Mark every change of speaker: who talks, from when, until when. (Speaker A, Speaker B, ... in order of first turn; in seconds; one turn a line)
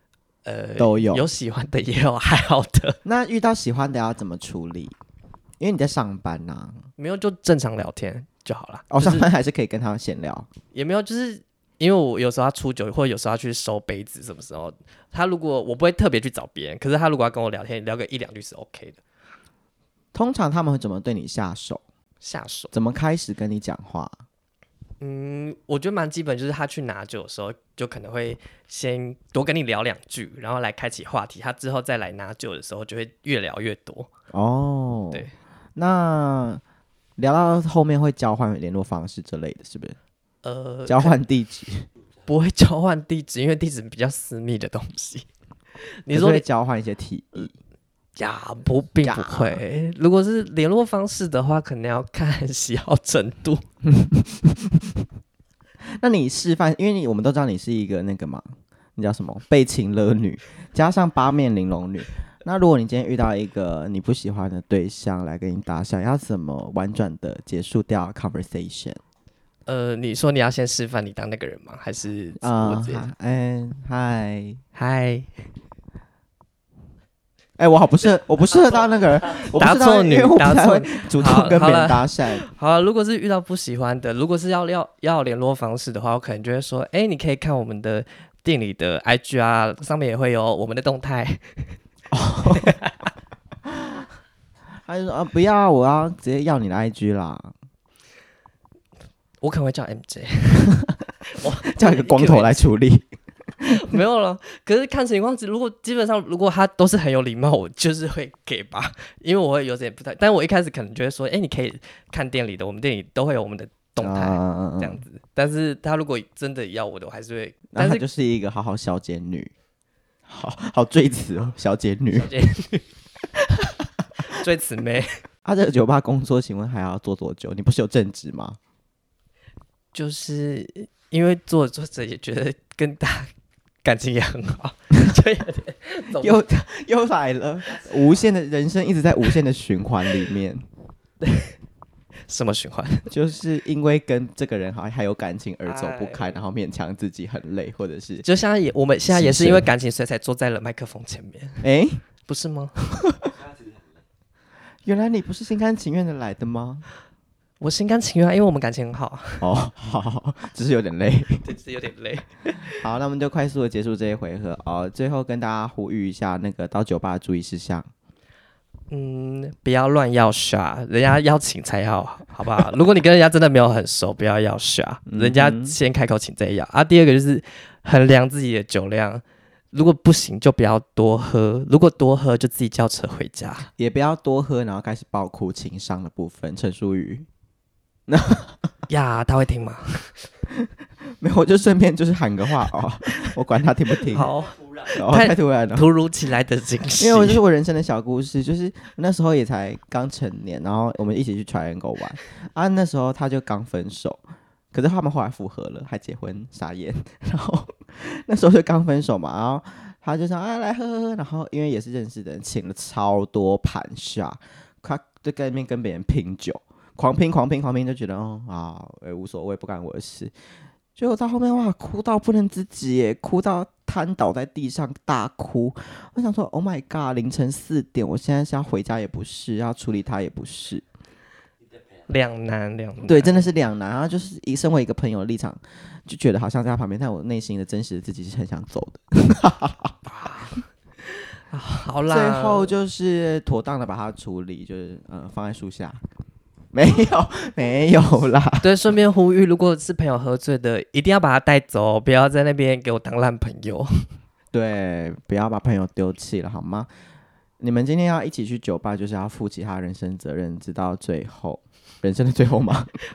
Speaker A: 0.5-3.0
Speaker B: 0.8-1.2
Speaker B: 3.0-5.0
Speaker B: 5.6-6.9
Speaker A: 7.0-9.3
Speaker B: 8.9-10.5
Speaker A: 10.7-19.0
Speaker B: 20.1-21.8
Speaker A: 22.2-22.7
Speaker B: 22.7-24.2
Speaker A: 25.0-34.1
Speaker B: 34.3-36.6
Speaker B: 37.2-40.0
Speaker A: 40.4-41.2
Speaker B: 40.9-41.9
Speaker A: 42.3-45.3
Speaker A: 46.0-46.5
Speaker B: 46.1-47.5
Speaker A: 48.2-53.6
Speaker B: 49.0-49.6
Speaker B: 53.9-54.8
Speaker B: 56.0-58.5
Speaker B: 59.0-69.0
Speaker A: 69.7-73.1
Speaker B: 72.4-74.6
Speaker A: 74.8-75.3
Speaker B: 77.6-82.4
Speaker A: 79.5-91.7
Speaker B: 92.1-92.8
Speaker A: 92.6-93.1
Speaker B: 93.7-94.0
Speaker B: 94.9-97.5
Speaker A: 99.4-100.8
Speaker A: 101.3-102.6
Speaker B: 101.7-103.1
Speaker A: 103.6-118.0
Speaker B: 114.0-115.0
Speaker B: 117.7-119.5
Speaker B: 120.3-122.3
Speaker A: 122.2-122.8
Speaker A: 123.4-125.2
Speaker B: 125.5-128.6
Speaker A: 129.9-133.3
Speaker A: 133.8-136.4
Speaker B: 136.2-140.6
Speaker A: 141.2-141.5
Speaker A: 142.3-143.1
Speaker B: 143.1-148.2
Speaker A: 145.7-146.4
Speaker A: 148.2-151.6
Speaker B: 149.1-149.7
Speaker B: 151.6-152.0
Speaker A: 152.3-152.8
Speaker B: 154.8-156.9
Speaker A: 157.6-159.4
Speaker B: 159.4-161.5
Speaker A: 161.4-162.8
Speaker B: 162.8-167.9
Speaker A: 168.9-183.7
Speaker B: 175.1-175.8
Speaker B: 183.8-187.3
Speaker B: 188.1-188.6
Speaker A: 188.9-190.2
Speaker B: 191.2-194.3
Speaker A: 194.1-197.4
Speaker B: 194.9-195.9
Speaker B: 197.0-220.3
Speaker B: 221.0-230.8
Speaker A: 232.1-233.5
Speaker B: 233.0-239.9
Speaker A: 240.1-242.7
Speaker B: 242.1-246.0
Speaker B: 246.7-248.7
Speaker A: 248.6-254.1
Speaker B: 254.5-256.9
Speaker B: 257.6-262.9